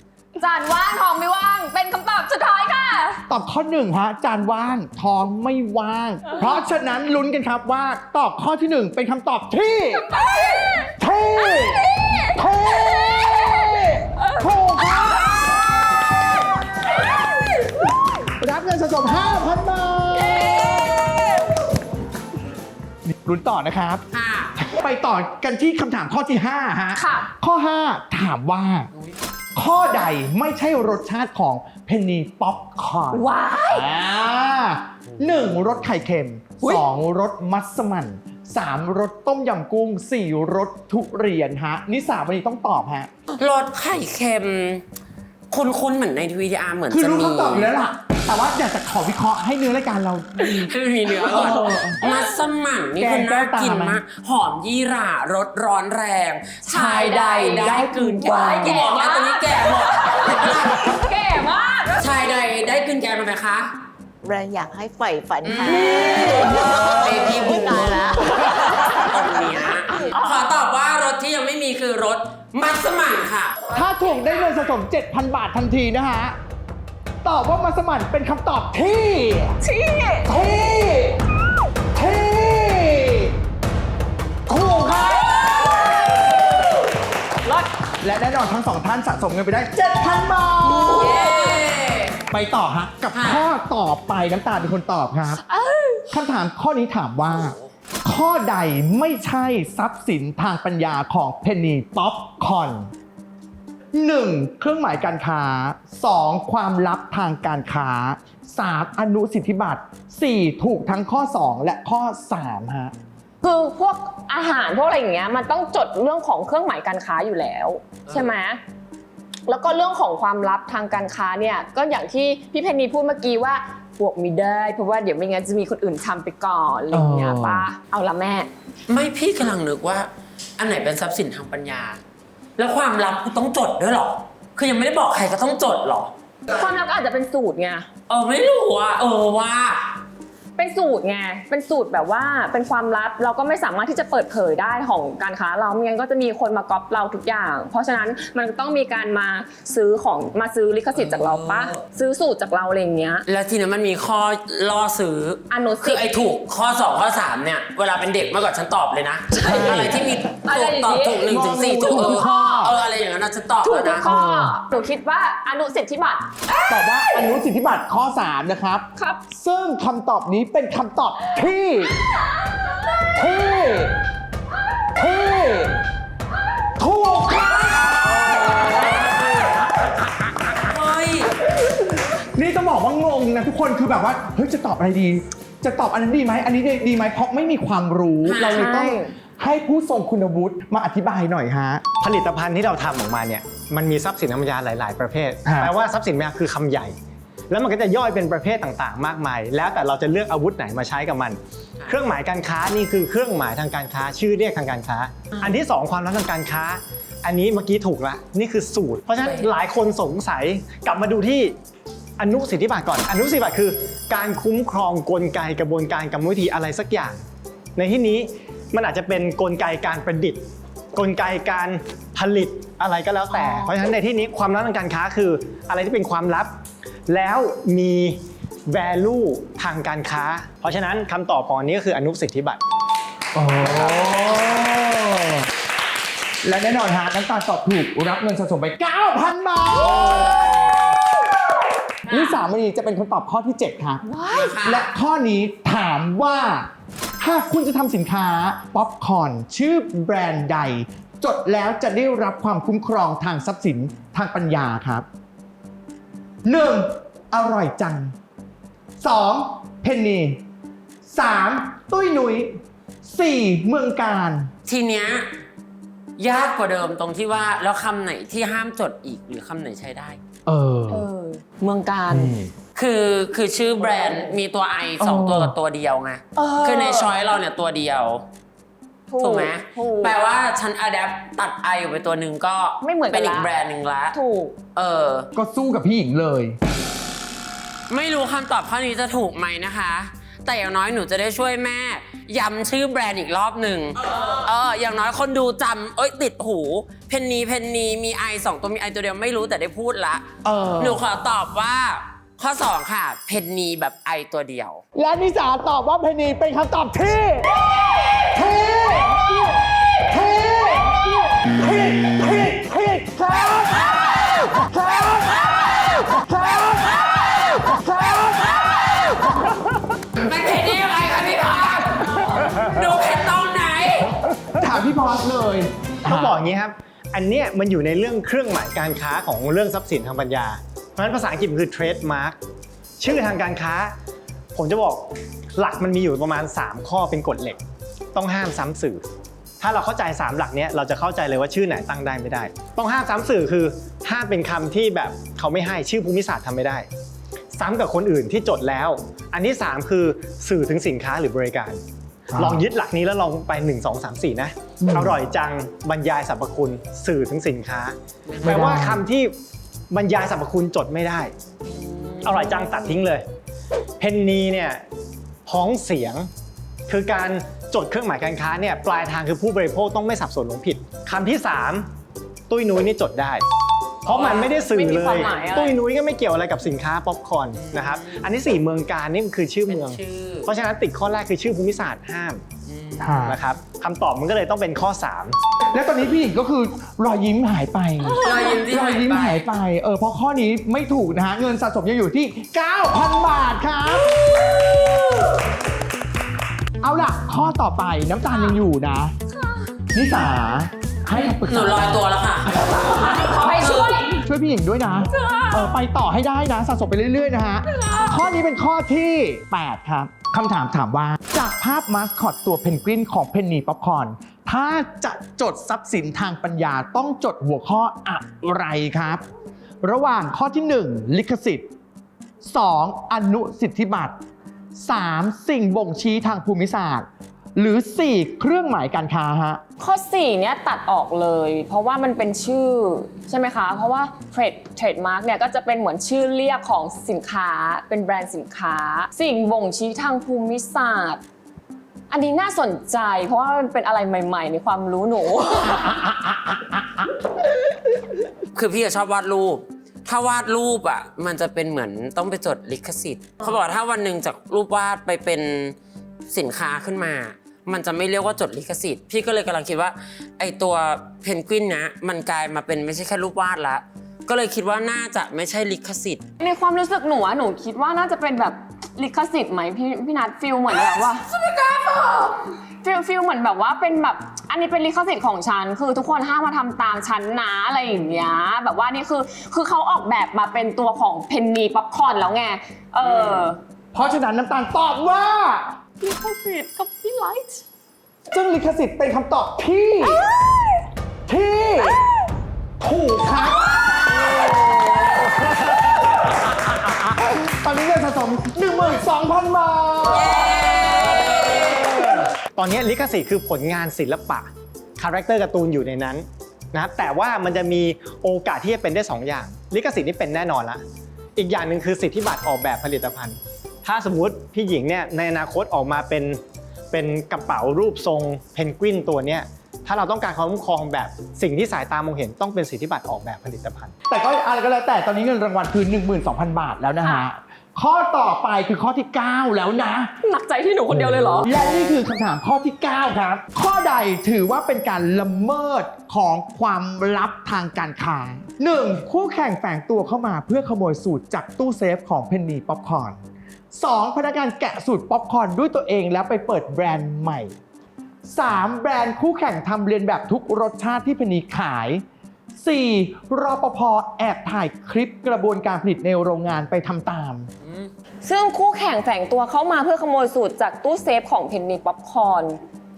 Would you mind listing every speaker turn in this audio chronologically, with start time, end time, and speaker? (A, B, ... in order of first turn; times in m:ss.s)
0:00.4-0:03.2 A
0:03.3-0:10.1 B
0:10.1-0:15.6 A
0:11.0-0:16.1 B
0:17.0-0:17.5 A
0:18.4-0:21.1 B
0:20.3-0:21.4 A
0:23.0-0:24.0 B
0:24.1-0:24.6 C
0:24.6-0:28.9 B
0:26.9-0:27.3 A
0:29.6-0:43.1 B
0:33.1-0:33.9 A
0:43.4-0:44.8 C
0:45.5-0:47.7 C
0:46.9-0:52.0 B
0:50.4-1:01.0 C
0:52.0-0:52.3 A
0:53.0-0:54.0 B
0:56.6-1:02.1 A
0:56.7-0:58.8 B
1:02.0-1:03.7 C
1:04.2-1:08.3 D
1:05.4-1:13.7 C
1:05.6-1:07.1 B
1:08.4-1:08.8 A
1:08.6-1:09.0 B
1:13.7-1:16.4 B
1:17.2-1:19.6 B
1:19.6-1:20.3 A
1:20.2-1:21.2 B
1:21.9-1:23.3 B
1:24.5-1:26.0 B
1:25.1-1:26.2 A
1:28.0-1:31.4 B
1:30.6-1:32.2 C
1:32.3-1:35.4 B
1:33.1-1:33.4 C
1:35.5-1:36.0 A
1:36.1-1:42.9 B
1:37.2-1:37.7 C
1:43.9-1:52.9 B
1:53.4-1:58.6 A
1:58.1-1:58.3 C
1:59.5-2:08.5 A
2:06.9-2:07.7 B
2:08.9-2:12.0 C
2:12.6-2:16.1 C
2:16.5-2:17.9 A
2:18.1-2:19.9 C
2:20.6-2:33.2 A
2:30.9-2:31.8 C
2:33.3-2:44.1 C
2:35.5-2:36.0 A
2:39.4-2:39.9 A
2:40.4-2:42.7 A
2:41.3-2:42.7 B
2:43.6-2:47.3 A
2:44.0-2:44.5 B
2:46.7-2:52.0 B
2:49.0-2:49.2 A
2:52.7-2:53.1 A
2:53.1-2:54.0 B
2:54.9-2:55.8 B
2:56.8-2:58.7 B
2:58.3-2:59.0 C
3:00.6-3:01.3 C
3:02.4-3:11.8 B
3:08.2-3:08.7 C
3:08.4-3:09.1 A
3:12.0-3:17.0 E
3:15.4-3:15.7 B
3:17.5-3:31.6 E
3:29.2-3:29.5 C
3:32.2-3:37.2 E
3:37.8-3:40.4 E
3:40.9-3:46.6 E
3:47.1-3:52.6 E
3:53.3-3:55.5 B
3:56.4-4:00.7 B
4:02.1-4:02.4 A
4:02.1-4:04.0 B
4:04.0-4:04.6 A
4:04.3-4:04.8 C
4:04.6-4:15.0 B
4:16.4-4:18.1 B
4:19.0-4:20.4 B
4:21.0-4:24.5 B
4:24.7-4:25.2 C
4:26.2-4:30.2 C
4:30.4-4:31.0 B
4:30.9-4:32.3 A
4:32.1-4:32.5 B
4:32.7-4:38.2 C
4:35.0-4:35.5 B
4:36.4-4:37.1 A
4:39.1-4:40.2 A
4:39.2-4:44.1 C
4:42.8-4:43.5 A
4:44.1-4:44.6 A
4:44.7-4:45.3 C
4:45.3-4:46.6 B
4:47.9-5:00.3 C
5:00.4-5:01.0 B
5:00.8-5:04.8 C
5:04.9-5:07.6 B
5:08.2-5:18.9 B
5:20.2-5:24.1 C
5:24.6-5:26.4 B
5:26.0-5:32.4 E
5:33.0-5:34.0 E
5:34.5-5:37.6 E
5:38.1-5:39.0 E
5:39.6-5:46.9 E
5:47.6-5:51.8 E
5:52.3-5:52.6 B
5:52.4-5:59.3 E
5:54.8-5:55.2 B
5:58.3-5:58.8 C
5:58.4-5:59.0 B
5:59.9-6:01.3 E
6:01.6-6:02.9 C
6:02.2-6:03.2 E
6:04.0-6:04.8 E
6:05.4-6:06.3 E
6:06.9-6:11.9 E
6:12.5-6:13.4 E
6:14.0-6:22.4 E
6:14.0-6:14.5 C
6:14.2-6:15.8 A
6:17.5-6:18.2 C
6:19.6-6:20.5 C
6:22.6-6:23.1 C
6:23.0-6:23.4 B
6:23.2-6:25.4 E
6:25.7-6:34.3 B
6:28.1-6:28.4 A
6:28.2-6:29.4 C
6:36.8-6:39.1 B
6:38.3-6:38.6 A
6:39.3-6:39.7 A
6:39.9-6:42.0 B
6:41.2-6:44.1 C
6:42.9-6:44.2 A
6:44.2-6:59.2 B
6:45.1-6:45.7 A
6:47.7-6:48.2 A
6:59.8-7:01.7 B
7:02.4-7:04.2 B
7:04.8-7:09.6 B
7:09.8-7:21.2 A
7:22.1-7:26.1 A
7:28.5-7:35.8 C
7:36.3-7:46.2 C
7:46.4-7:51.2 A
7:50.7-7:52.5 C
7:52.8-8:03.6 A
8:03.0-8:03.5 C
8:03.9-8:05.7 B
8:06.0-8:07.6 A
8:08.3-8:10.2 B
8:11.3-8:12.0 B
8:12.8-8:13.7 B
8:14.4-8:14.9 C
8:17.1-8:20.8 B
8:20.1-8:22.0 C
8:21.4-8:22.2 B
8:22.6-8:30.8 E
8:31.4-8:43.9 E
8:44.1-8:50.1 B
8:47.0-8:47.3 A
8:50.2-8:51.5 A
8:51.4-9:03.2 B
9:03.7-9:07.6 B
9:08.2-9:12.0 B
9:12.6-9:17.5 B
9:17.6-9:17.9 C
9:18.2-9:22.6 A